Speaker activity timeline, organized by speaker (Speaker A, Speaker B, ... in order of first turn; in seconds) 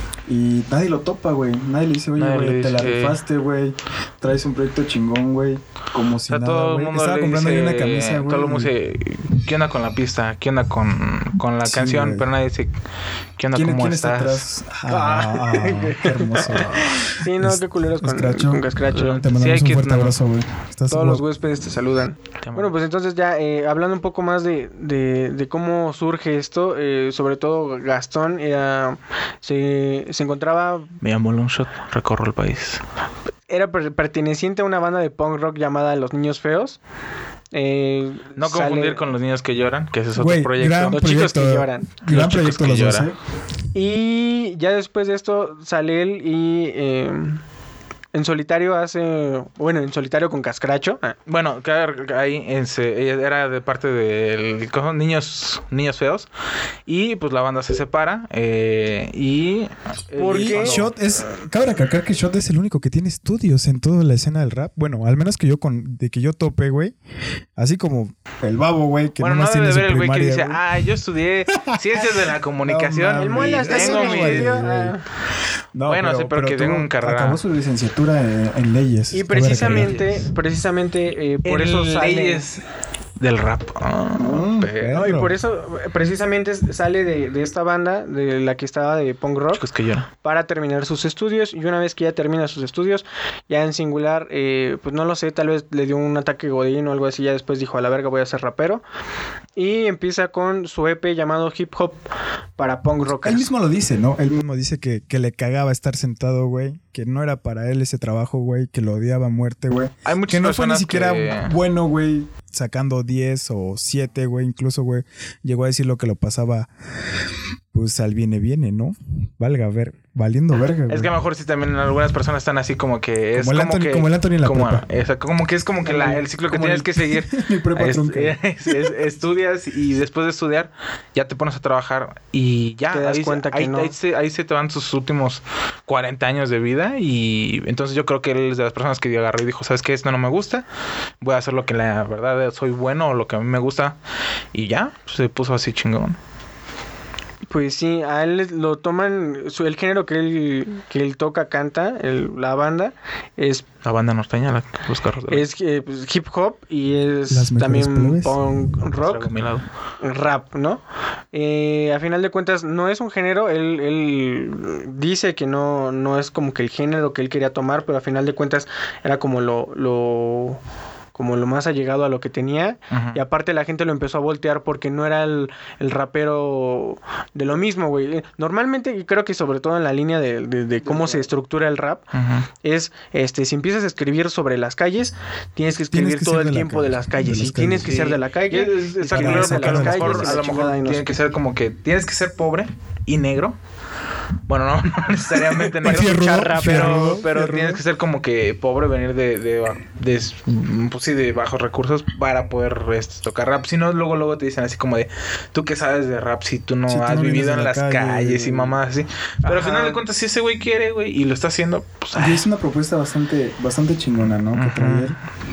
Speaker A: 0.2-8.7, 11.6-12.3, 13.5-21.2, 40.1-43.1, 60.3-66.9, 67.5-70.6, 71.5-74.9, 75.7-80.0, 84.1-85.4, 103.1-116.7, 117.7-121.1, 123.3-124.8, 125.8-128.9, 157.3-158.4, 180.8-181.3, 185.9-188.1, 189.1-190.5, 195.8-197.8, 206.9-208.8, 212.1-215.2
Speaker B: 2.2-3.2, 6.3-12.7, 13.4-14.4, 18.9-20.2, 22.4-22.7, 31.0-32.8, 38.4-41.0, 42.1-43.1, 51.3-56.3, 56.9-60.9, 69.2-74.7, 75.8-77.4, 79.4-80.3, 81.4-82.6, 83.2-85.0, 89.5-90.1, 110.0-111.5, 120.9-140.7, 141.2-144.0, 144.5-146.2, 153.8-155.4, 159.0-159.6, 172.9-173.2, 182.1-182.5, 187.8-193.6, 194.5-212.4, 214.5-215.1
Speaker C: 14.9-19.2, 20.9-30.9, 33.5-36.8, 37.5-39.0, 40.9-41.9, 43.7-47.4, 48.1-51.1, 60.2-60.8, 73.1-75.0, 79.1-82.4, 84.9-89.6, 90.2-98.8, 99.5-102.0, 102.6-103.5, 132.9-133.9, 147.5-153.7, 155.3-159.3, 160.0-160.8, 161.3-170.6, 171.1-182.1, 182.6-191.2, 195.7-197.2, 209.4-210.0